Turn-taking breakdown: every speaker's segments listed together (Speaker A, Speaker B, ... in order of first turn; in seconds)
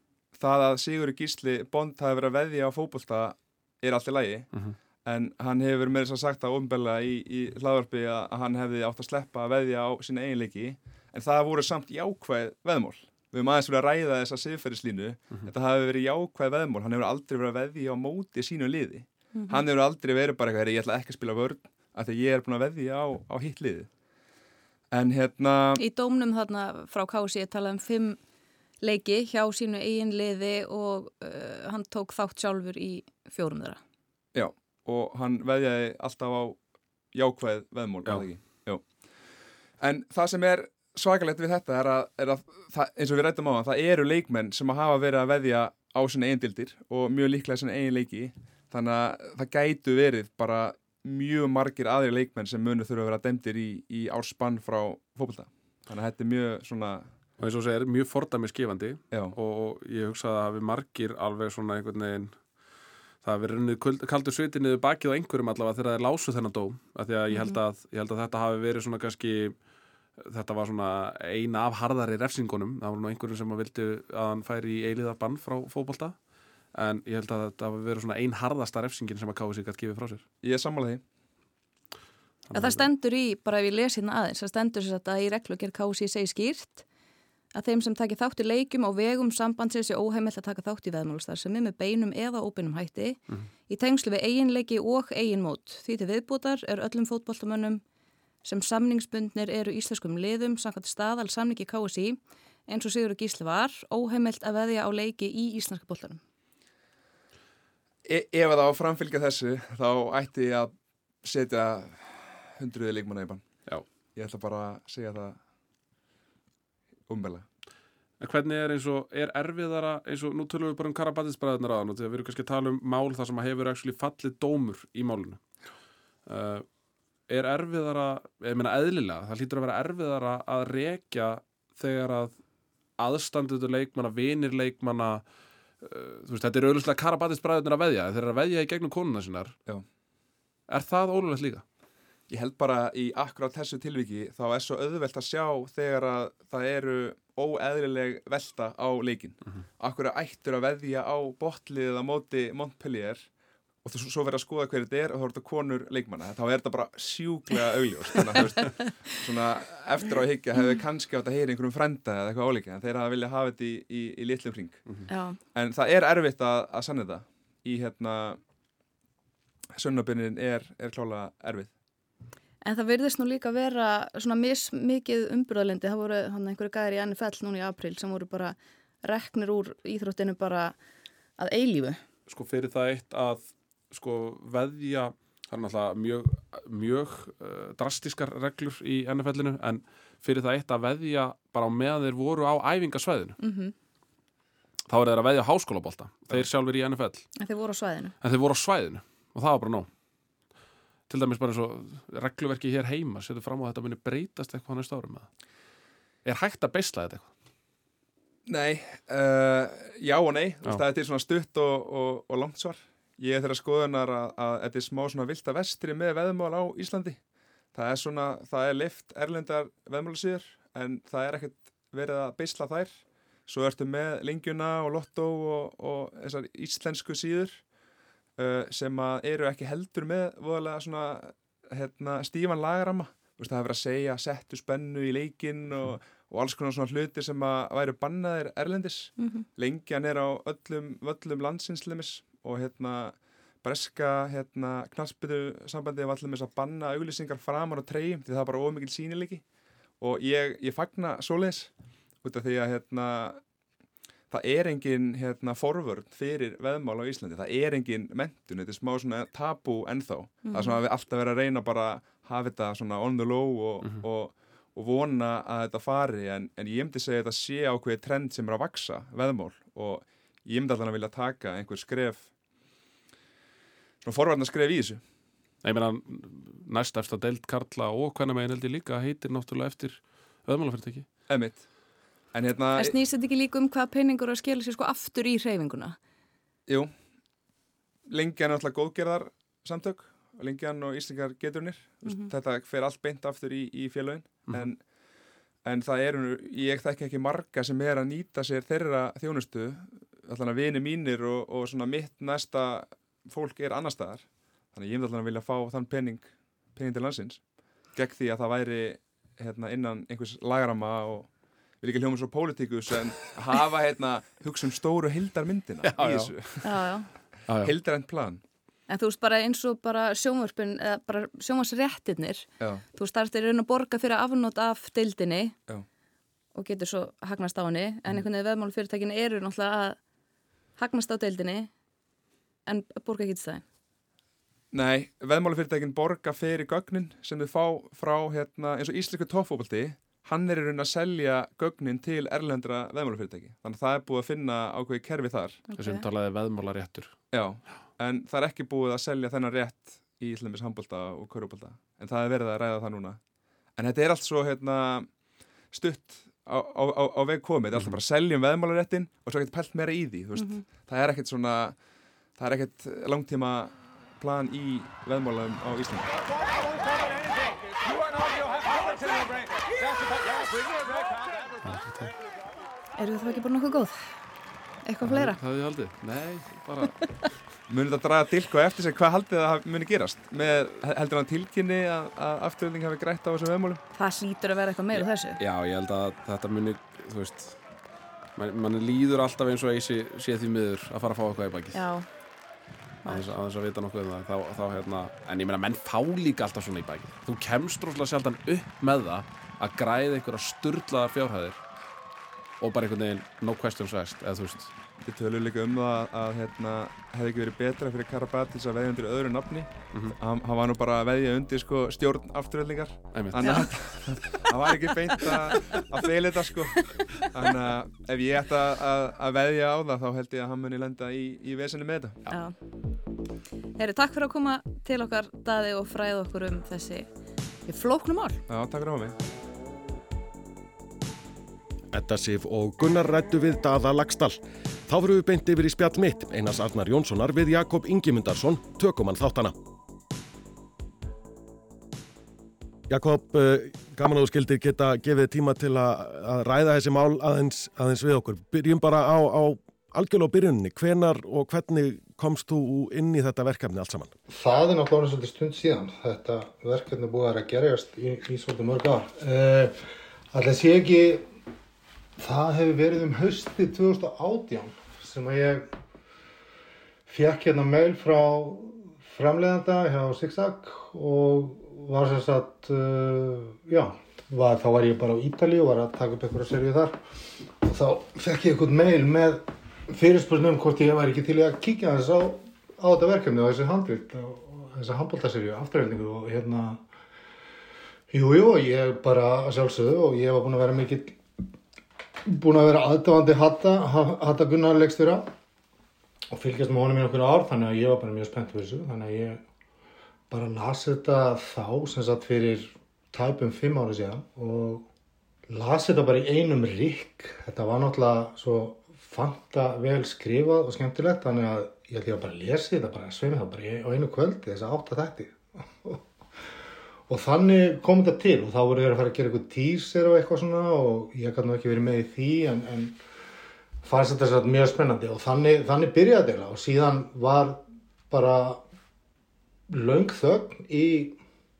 Speaker A: 0.3-4.5, 5.0-23.9, 24.9-25.8, 34.3-36.6, 37.1-39.0, 39.8-57.1, 80.4-81.0, 108.0-113.4, 114.1-115.4, 117.1-117.4, 142.3-153.3, 153.8-164.8, 165.5-168.4, 169.7-171.7, 208.5-217.2, 217.7-227.6, 228.4-249.4, 250.0-253.4, 254.3-272.3, 274.0-275.0, 281.3-281.7, 282.3-282.9, 286.7-286.9, 288.1-294.8, 295.6-316.6, 317.6-318.4, 334.7-345.6, 347.3-353.2, 353.7-355.1, 355.7-361.8, 362.4-366.1, 377.7-383.8, 405.0-422.2, 428.5-429.1
Speaker B: 19.3-19.6, 25.8-28.2, 28.8-33.8, 67.3-67.6, 82.5-86.8, 87.5-97.8, 98.4-106.2, 165.1-165.4, 172.6-180.8, 181.4-182.0, 193.4-193.7, 197.4-198.1, 239.2-239.4, 260.4-260.8, 282.8-286.0, 292.0-292.3, 316.6-317.1, 318.9-325.5, 326.5-330.0, 330.8-331.7, 332.7-333.6, 345.7-346.0, 360.4-360.6, 373.0-374.1, 374.8-375.4, 383.9-385.4, 391.7-392.1, 393.0-393.3, 413.4-413.7, 422.3-422.5, 423.8-427.1, 427.6-428.4
Speaker C: 57.4-62.4, 63.2-69.5, 70.2-76.2, 76.7-80.2, 82.5-82.9, 118.2-125.4, 126.2-126.7, 127.3-132.4, 133.0-135.2, 135.8-139.6, 140.7-141.6, 182.3-193.4, 194.9-197.3, 198.2-199.9, 201.1-205.3, 206.2-207.3, 275.6-281.1, 315.8-316.4, 317.5-317.7, 345.8-347.1, 371.6-372.1, 375.0-377.0, 384.9-387.6, 388.4-391.8, 393.0-401.6, 402.6-404.7, 413.1-413.7
Speaker D: 431.9-439.5, 442.9-454.1
Speaker E: 454.3-459.8, 460.3-461.2, 462.2-465.7, 467.1-477.0, 477.6-486.8, 488.1-491.2, 492.2-495.3, 496.3-499.4, 500.3-504.9, 505.5-516.0, 517.1-523.0, 523.8-528.6, 529.7-531.2